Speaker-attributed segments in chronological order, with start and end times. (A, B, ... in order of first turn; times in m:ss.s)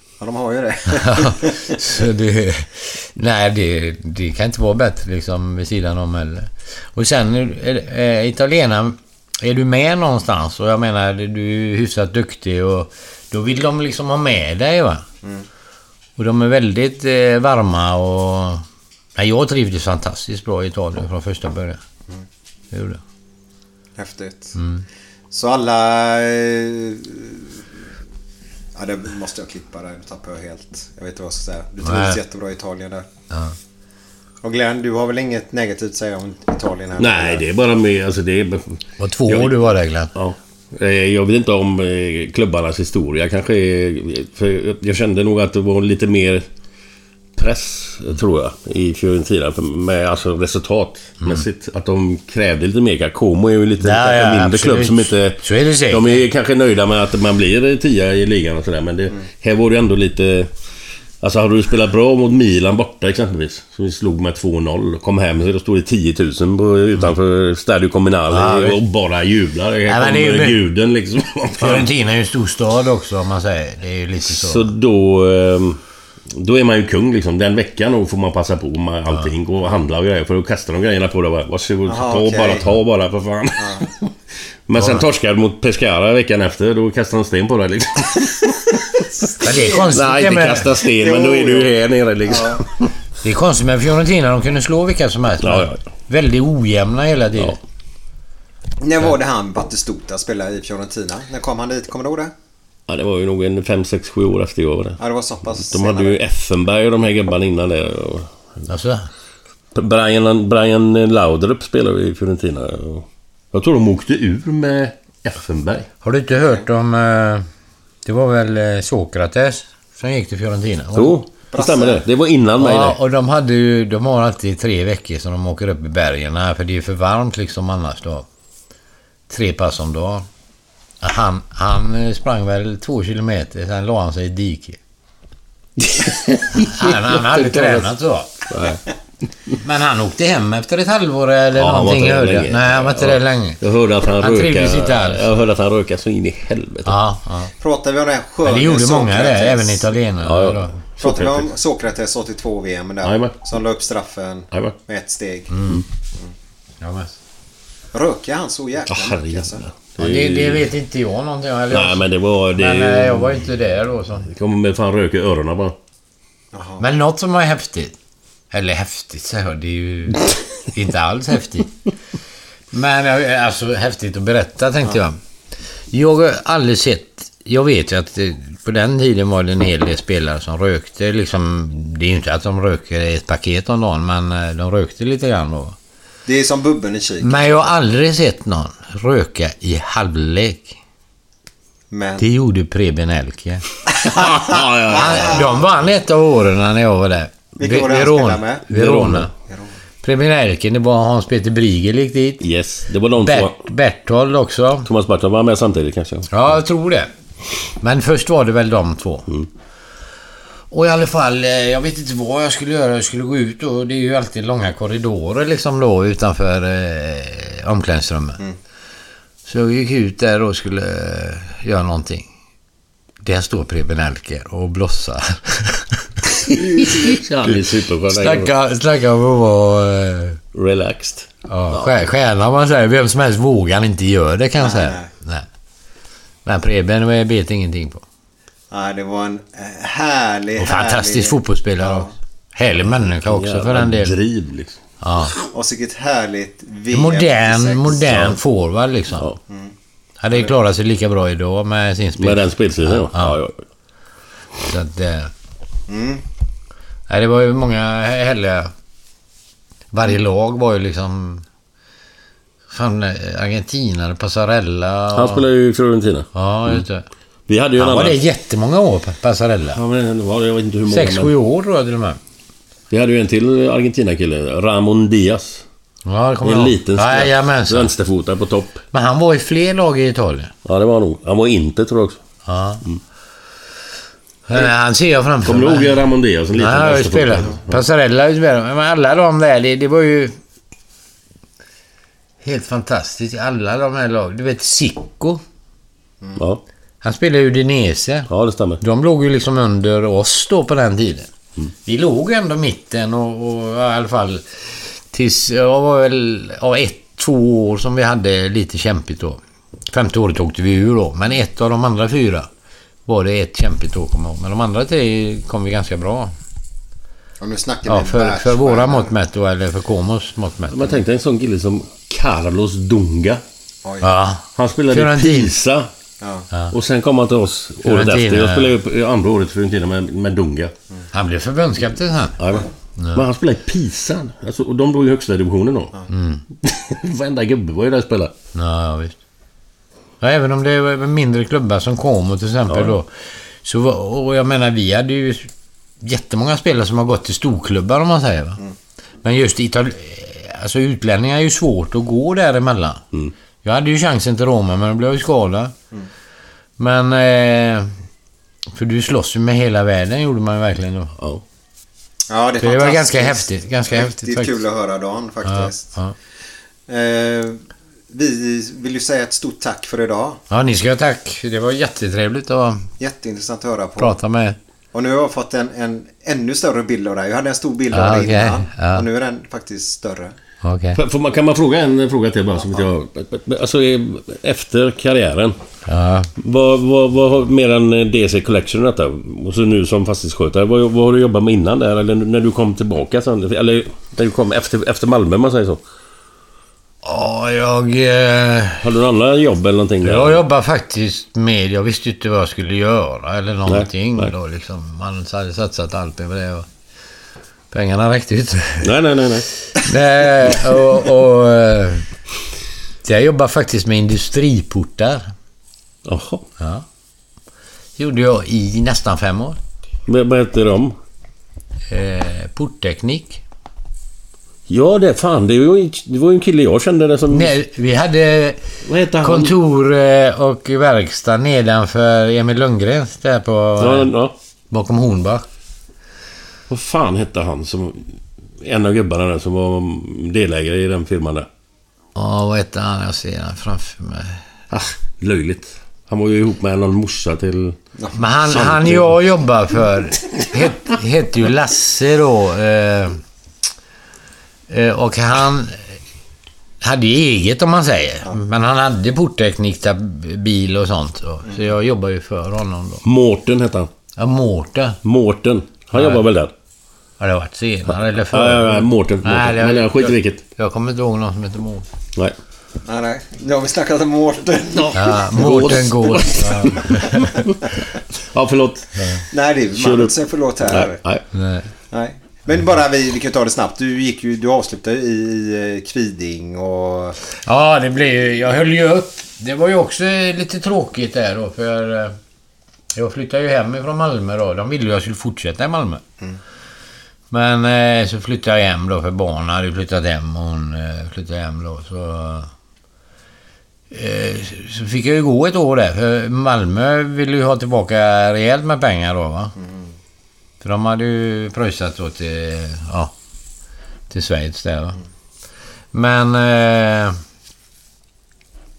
0:00.2-0:01.8 A
0:00.9-0:15.0 B
0:16.2-0:21.8 B
0:22.7-0:23.0 B
0:24.0-0:24.6 A
0:24.5-0:24.8 B
0:25.3-0:27.6 A
0:28.7-0:33.1 A
0:31.8-0:32.2 B
0:33.3-0:33.6 B
0:34.4-0:37.4 A
0:37.0-0:39.5 C
0:39.0-0:40.1 B
0:40.1-0:46.4 C
0:47.4-1:00.5 C
0:53.8-0:56.2 B
1:01.2-1:11.9 C
1:08.3-1:08.8 B
1:09.9-1:10.6 B
1:11.6-1:14.7 B
1:14.3-1:15.8 C
1:16.3-1:24.1 C
1:21.9-1:22.7 A
1:23.6-1:23.8 A
1:24.7-1:29.0 C
1:24.8-1:25.0 B
1:29.3-1:29.8 A
1:29.4-1:30.7 B
1:29.7-1:32.9 C
1:30.9-1:31.7 A
1:32.2-1:32.6 A
1:33.2-1:37.6 B
1:35.4-1:35.7 C
1:38.8-1:42.3 A
1:42.9-1:45.0 C
1:45.0-1:46.2 A
1:45.6-1:48.3 C
1:48.7-1:49.1 B
1:49.7-1:55.9 C
1:56.0-1:57.4 B
1:58.0-2:01.2 B
2:00.9-2:03.0 C
2:01.5-2:02.0 A
2:02.6-2:08.2 B
2:09.3-2:10.2 B
2:11.0-2:14.8 B
2:15.8-2:17.9 C
2:16.6-2:18.3 B
2:18.5-2:18.8 C
2:19.6-2:23.6 B
2:21.6-2:27.0 C
2:24.2-2:25.2 B
2:26.8-2:27.5 B
2:27.6-2:29.8 A
2:28.4-2:30.8 B
2:30.2-2:31.5 C
2:31.0-2:35.6 A
2:33.0-2:33.3 C
2:35.5-2:35.8 B
2:36.8-2:37.1 B
2:37.9-2:39.6 A
2:38.9-2:40.6 C
2:40.0-2:44.3 B
2:41.7-2:43.4 C
2:44.3-2:45.7 C
2:46.5-2:46.8 A
2:46.8-2:47.9 B
2:48.5-2:51.7 B
2:52.7-2:55.2 B
2:55.9-3:05.8 B
3:06.2-3:07.7 A
3:07.2-3:10.8 B
3:11.9-3:12.3 A
3:12.2-3:13.6 B
3:14.0-3:15.4 C
3:14.9-3:15.4 A
3:14.9-3:19.3 B
3:17.6-3:18.6 A
3:18.7-3:19.3 C
3:19.5-3:19.8 A
3:20.0-3:22.4 B
3:22.4-3:23.6 C
3:23.2-3:24.9 B
3:24.8-3:26.5 C
3:26.3-3:27.1 B
3:27.8-3:29.3 B
3:30.7-3:38.4 B
3:39.4-3:42.3 B
3:43.2-3:46.8 B
3:46.6-3:48.5 C
3:48.1-3:50.4 B
3:50.5-3:51.9 C
3:51.5-3:55.4 B
3:54.6-3:55.1 A
3:56.4-3:58.0 B
3:58.7-4:02.1 A
4:00.6-4:04.1 B
4:03.2-4:04.8 C
4:05.0-4:05.3 B
4:05.5-4:08.2 A
4:06.9-4:09.3 B
4:09.5-4:09.7 A
4:10.2-4:13.4 B
4:12.2-4:13.6 C
4:14.6-4:15.3 B
4:15.9-4:16.2 A
4:17.1-4:18.7 B
4:19.9-4:21.4 B
4:22.7-4:25.4 B
4:25.1-4:26.8 C
4:26.3-4:27.0 B
4:27.5-4:28.2 C
4:27.8-4:29.8 B
4:29.7-4:31.3 C
4:30.9-4:32.2 B
4:32.9-4:35.6 C
4:36.0-4:37.9 B
4:36.4-4:38.8 C
4:38.9-4:40.5 B
4:40.6-4:42.2 C
4:42.4-4:42.8 B
4:44.5-4:46.0 B
4:45.4-4:47.8 C
4:46.5-4:50.3 B
4:52.4-4:55.4 B
4:56.4-4:56.6 C
4:57.0-4:58.3 B
4:58.3-4:58.8 C
4:58.8-5:01.3 B
5:01.8-5:09.4 B
5:09.9-5:12.5 B
5:13.0-5:16.3 B
5:17.4-5:19.1 A
5:17.9-5:21.0 B
5:20.7-5:23.4 C
5:24.0-5:25.5 B
5:24.6-5:25.9 C
5:26.2-5:26.5 A
5:26.7-5:30.7 C
5:27.8-5:28.7 B
5:31.1-5:32.4 B
5:32.4-5:35.9 C
5:33.0-5:33.2 B
5:36.1-5:36.4 B
5:36.6-5:38.3 C
5:38.5-5:39.2 B
5:40.2-5:45.5 B
5:42.7-5:43.0 C
5:46.0-5:48.6 B
5:49.2-5:53.0 B
5:53.6-5:55.7 B
5:56.8-5:57.9 B
5:58.7-6:01.1 B
6:02.3-6:05.9 A
6:02.6-6:04.6 B
6:05.4-6:06.1 B
6:06.9-6:10.4 A
6:10.5-6:12.9 B
6:13.0-6:14.2 A
6:14.0-6:14.6 B
6:14.9-6:20.3 A
6:17.9-6:19.0 B
6:20.6-6:21.0 B
6:20.9-6:25.6 C
6:22.6-6:22.9 A
6:25.9-6:26.3 B
6:26.4-6:35.8 C
6:37.0-6:38.9 B
6:38.8-6:40.4 C
6:40.0-6:46.6 B
6:43.7-6:44.3 C
6:47.7-6:48.9 B
6:48.8-6:49.5 C
6:49.8-6:52.0 B
6:53.0-6:55.3 B
6:56.0-6:56.4 C
6:56.6-6:56.8 B
6:58.0-6:59.6 B
7:00.1-7:00.9 C
7:01.9-7:03.4 B
7:04.7-7:07.5 C
7:07.3-7:08.6 B
7:08.8-7:09.5 C
7:09.2-7:14.1 B
7:13.8-7:14.3 C
7:14.7-7:15.4 B
7:16.7-7:18.1 C
7:18.6-7:21.5 C
7:22.2-7:24.4 B
7:24.7-7:27.8 C
7:28.1-7:33.2 B
7:28.5-7:29.1 C
7:34.7-7:35.8 B
7:36.8-7:43.0 B
7:43.0-7:43.9 C
7:44.2-7:45.0 B
7:45.0-7:46.5 C
7:45.9-7:46.2 B
7:47.2-7:51.9 B
7:48.3-7:50.4 C
7:52.8-7:55.2 A
7:54.7-7:56.9 C
7:54.9-7:57.3 B
7:58.3-7:59.0 C
7:59.0-7:59.2 B
7:59.3-8:01.0 A
7:59.8-8:01.2 C
8:01.3-8:01.7 B
8:01.9-8:07.2 A
8:07.4-8:12.1 B
8:12.9-8:16.0 B
8:17.3-8:22.5 B
8:23.9-8:29.5 B
8:29.6-8:29.9 A
8:30.6-8:33.1 B
8:34.1-8:35.0 B
8:35.9-8:37.2 B